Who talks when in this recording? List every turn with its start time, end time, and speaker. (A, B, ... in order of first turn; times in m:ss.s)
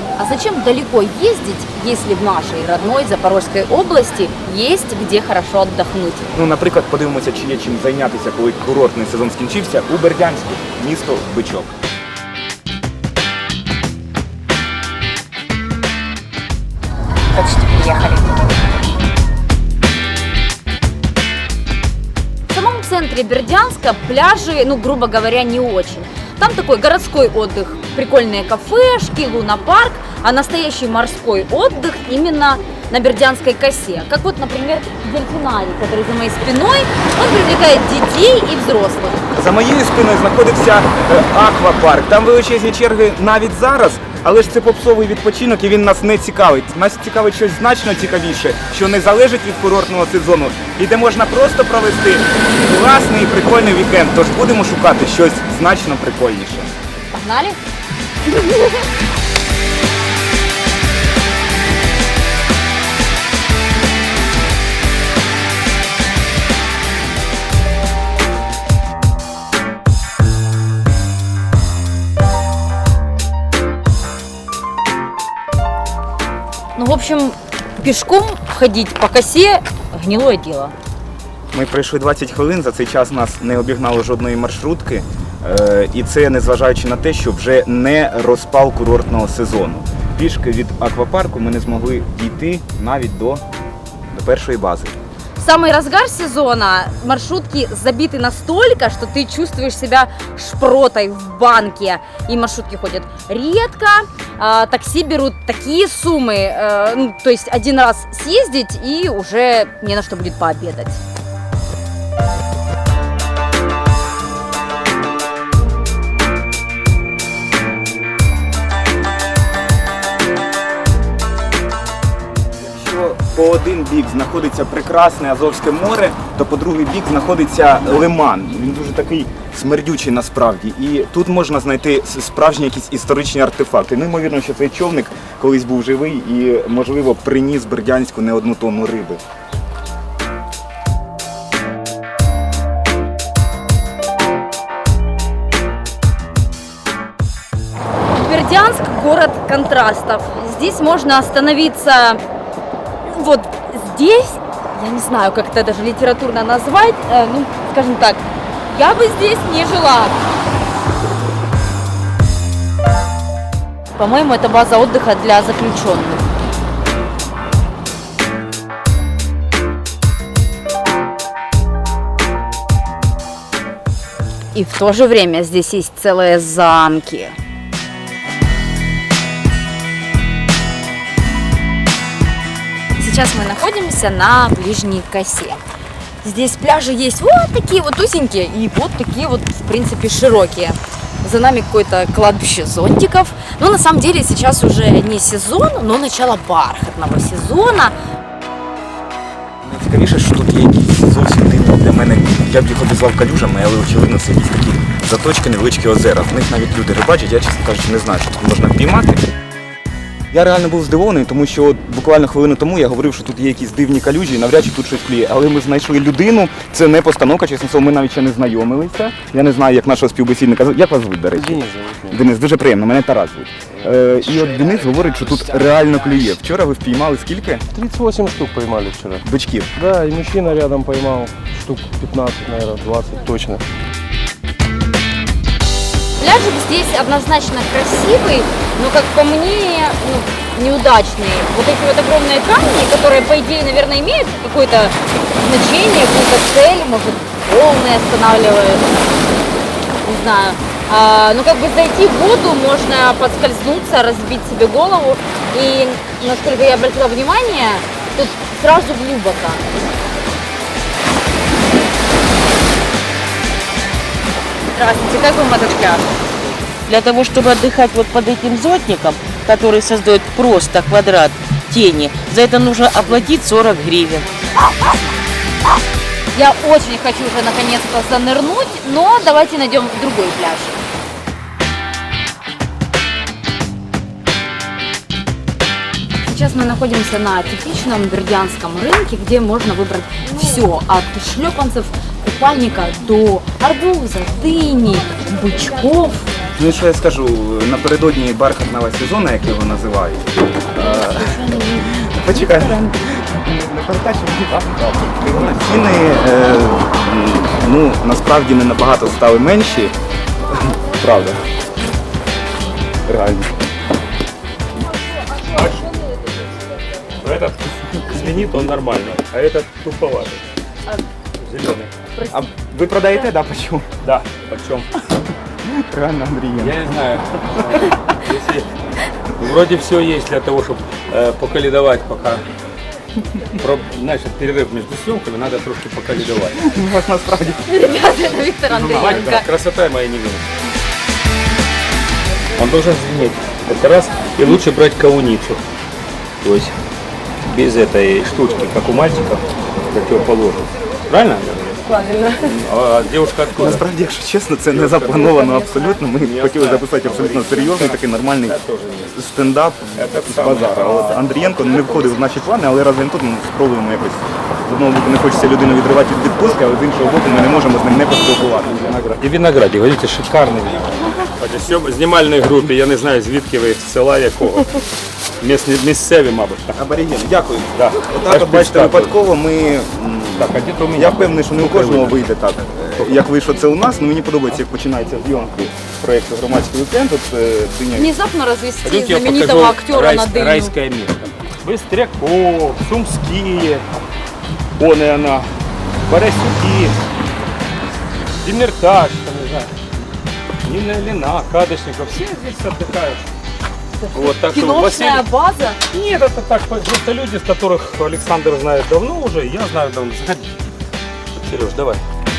0:00.2-0:06.4 A
0:06.3-0:11.7 B
0:17.3-0:18.4 A
0:22.5-0:39.2 A
0:39.3-0:56.7 B
0:57.1-0:57.6 A
0:58.3-0:58.7 A
1:16.8-1:20.7 A
1:21.5-1:33.4 B
1:34.1-1:35.0 B
1:35.4-1:51.0 A
2:02.6-2:19.2 B
2:28.1-2:32.2 A
2:33.0-2:40.2 A
2:44.0-2:46.2 A
2:54.5-2:57.3 A
3:03.0-3:05.6 A
3:06.2-3:17.9 A
3:19.6-3:29.3 B
3:30.3-3:47.7 B
3:41.3-3:42.2 C
3:47.7-3:53.6 C
3:49.2-3:49.7 B
3:56.2-4:09.0 A
4:10.0-4:19.7 A
4:24.8-4:26.1 A
4:26.8-4:34.3 D
4:34.6-4:35.0 A
4:36.3-4:40.8 A
4:46.2-4:56.3 A
4:56.5-5:09.9 B
5:00.8-5:03.1 A
5:10.5-5:11.4 B
5:13.1-5:13.6 B
5:15.5-5:15.9 E
5:17.2-5:20.4 E
5:18.1-5:18.7 B
5:21.4-5:21.9 E
5:22.1-5:22.5 A
5:22.3-5:23.9 B
5:24.0-5:25.0 E
5:25.6-5:26.8 B
5:26.6-5:28.7 E
5:29.4-5:32.4 E
5:33.6-5:36.6 E
5:36.6-5:37.8 B
5:37.7-5:39.5 A
5:38.7-5:40.4 E
5:42.6-5:45.6 E
5:46.4-5:46.7 E
5:47.5-5:51.8 E
5:51.9-5:52.5 A
5:52.4-5:53.8 E
5:53.6-5:58.6 B
5:54.8-5:59.1 E
5:59.1-6:09.0 B
6:00.0-6:01.8 E
6:08.7-6:14.8 E
6:15.4-6:16.8 E
6:16.8-6:28.1 B
6:17.8-6:19.2 E
6:20.4-6:22.2 E
6:27.9-6:30.7 A
6:28.8-6:33.8 E
6:34.8-6:35.5 E
6:36.1-6:36.9 E
6:38.4-6:39.7 E
6:40.6-6:43.2 E
6:44.0-6:45.8 A
6:44.1-6:45.2 E
6:45.9-6:50.5 E
6:51.4-6:52.0 E